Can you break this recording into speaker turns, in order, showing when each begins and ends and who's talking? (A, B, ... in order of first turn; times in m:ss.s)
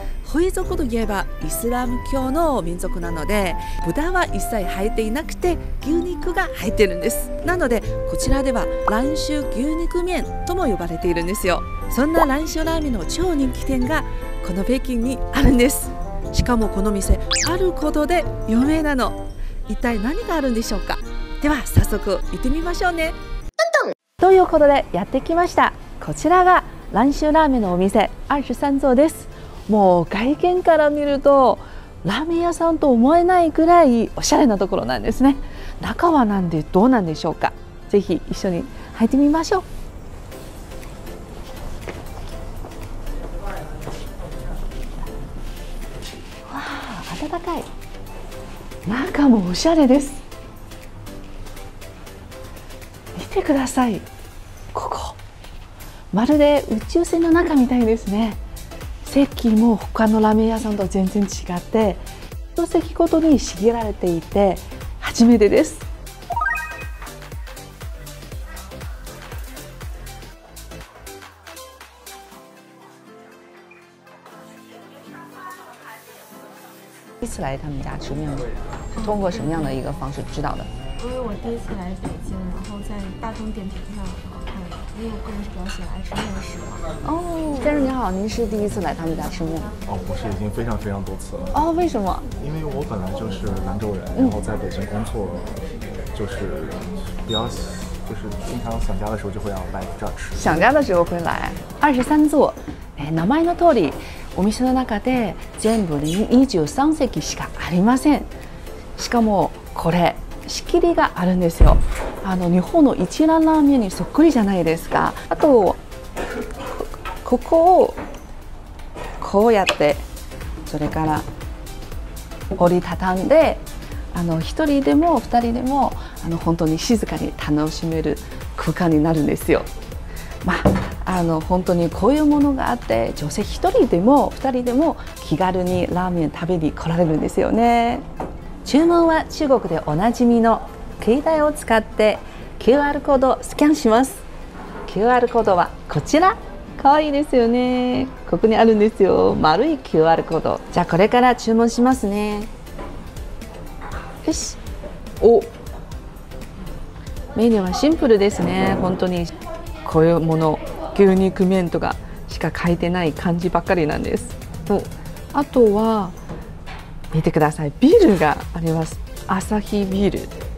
0:00.2-0:23.2 A
0:24.2-0:39.7 A
0:46.5-0:47.7 A
0:48.8-0:50.2 A
0:53.2-0:54.1 A
0:54.7-0:55.2 A
0:56.1-0:58.4 A
0:59.0-1:02.0 A
1:02.6-1:05.9 A
1:17.2-1:20.7 A
1:19.0-1:19.8 B
1:21.0-1:26.9 B
1:27.0-1:29.8 A
1:29.9-1:31.6 C
1:31.5-1:32.3 A
1:32.4-1:40.7 C
1:40.4-1:48.3 A
1:49.0-1:55.8 A
1:56.8-1:58.0 A
1:59.2-2:00.0 A
2:00.7-2:01.3 A
2:02.5-2:09.7 A
2:10.4-2:18.1 A
2:18.6-2:24.2 A
2:24.9-2:32.5 A
2:34.2-2:34.6 A
2:35.2-2:35.5 A
2:37.4-2:39.3 A
2:39.8-2:46.2 A
2:47.1-2:50.3 A